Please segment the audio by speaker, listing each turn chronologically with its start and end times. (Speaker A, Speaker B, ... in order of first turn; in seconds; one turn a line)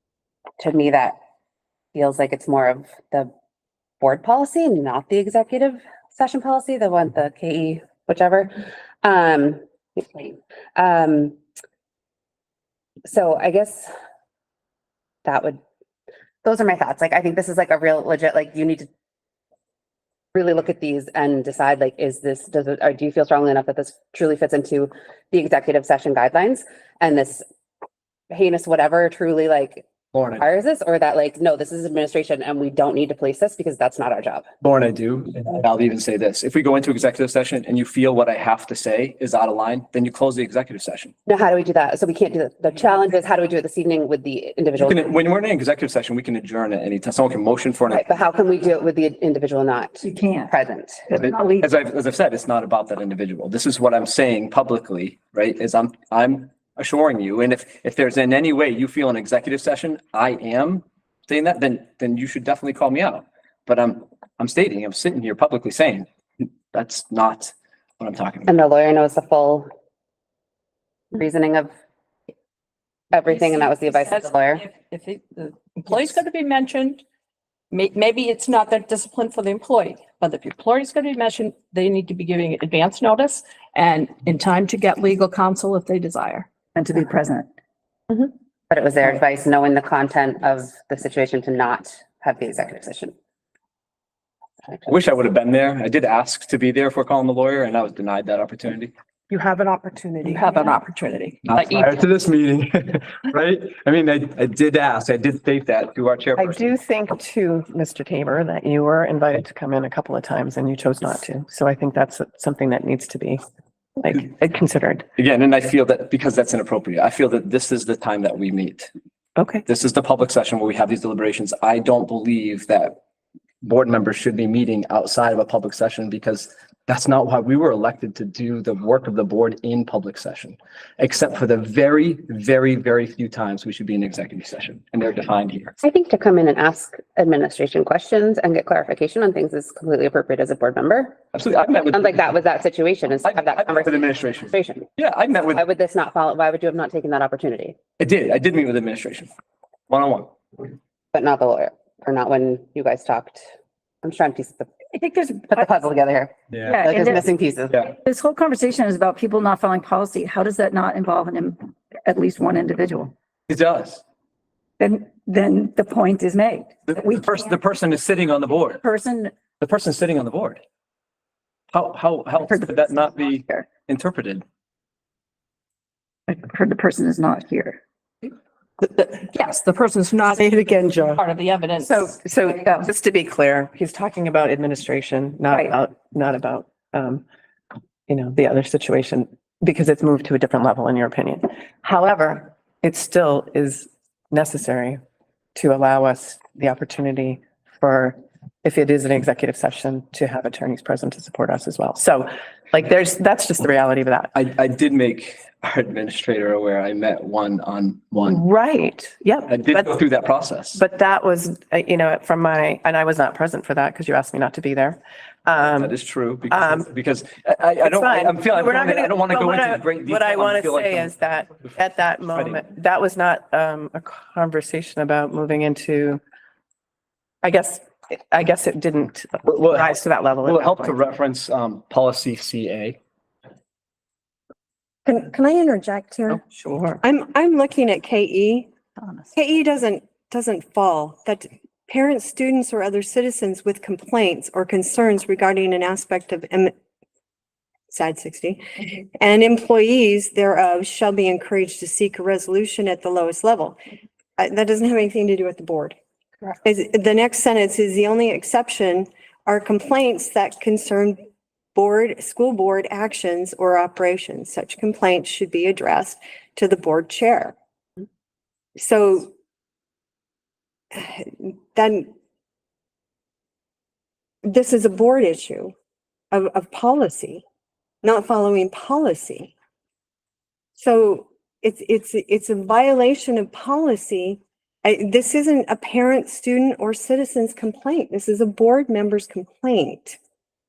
Speaker A: 0.6-1.2
Speaker A: 1.9-3.3
Speaker A: 4.0-11.4
Speaker A: 13.0-13.9
Speaker A: 15.2-15.6
Speaker A: 16.4-18.9
Speaker A: 20.3-27.4
Speaker A: 28.3-29.8
Speaker B: 30.1-30.4
Speaker A: 30.4-34.5
Speaker B: 34.6-41.1
Speaker A: 41.3-45.1
Speaker B: 44.8-48.1
Speaker A: 47.9-51.0
Speaker C: 50.0-50.5
Speaker C: 51.1-51.6
Speaker B: 51.1-66.1
Speaker B: 66.7-68.5
Speaker A: 68.5-69.7
Speaker A: 71.1-71.7
Speaker A: 73.1-74.7
Speaker D: 73.3-77.0
Speaker D: 77.7-86.5
Speaker C: 86.7-87.5
Speaker A: 88.1-93.1
Speaker B: 94.9-98.9
Speaker D: 99.3-101.9
Speaker E: 99.7-100.7
Speaker B: 101.5-106.7
Speaker F: 106.4-113.4
Speaker F: 114.0-115.0
Speaker B: 115.2-118.9
Speaker F: 119.3-119.6
Speaker B: 119.7-123.0
Speaker B: 123.6-135.7
Speaker A: 135.8-144.9
Speaker B: 141.3-142.3
Speaker B: 143.2-145.6
Speaker A: 145.5-147.8
Speaker B: 148.0-149.3
Speaker B: 149.9-150.3
Speaker A: 151.1-153.4
Speaker A: 154.0-154.7
Speaker C: 154.9-155.7
Speaker A: 155.5-157.9
Speaker B: 156.5-156.8
Speaker C: 156.6-157.3
Speaker C: 158.0-163.1
Speaker B: 163.5-164.0
Speaker C: 164.8-167.5
Speaker B: 166.9-168.8
Speaker C: 168.8-169.3
Speaker B: 169.6-170.6
Speaker B: 171.7-174.4
Speaker C: 172.6-173.7
Speaker C: 176.3-177.8
Speaker D: 178.8-182.1
Speaker F: 181.8-187.2
Speaker F: 188.1-195.0
Speaker F: 195.5-204.3
Speaker B: 204.3-208.4
Speaker F: 208.2-210.0
Speaker B: 209.5-210.8
Speaker F: 210.7-215.9
Speaker B: 215.7-221.7
Speaker F: 216.5-216.9
Speaker F: 217.8-226.2
Speaker B: 222.3-222.6
Speaker F: 227.4-231.0
Speaker B: 229.4-233.0
Speaker E: 235.0-236.4
Speaker F: 236.3-237.0
Speaker E: 237.0-238.7
Speaker E: 239.3-246.7
Speaker E: 247.9-253.8
Speaker E: 254.4-255.9
Speaker E: 256.6-261.2
Speaker E: 261.7-267.5
Speaker E: 268.8-269.3
Speaker E: 270.9-272.1
Speaker E: 274.4-275.7
Speaker E: 276.3-277.4
Speaker E: 278.0-279.5
Speaker E: 280.8-290.2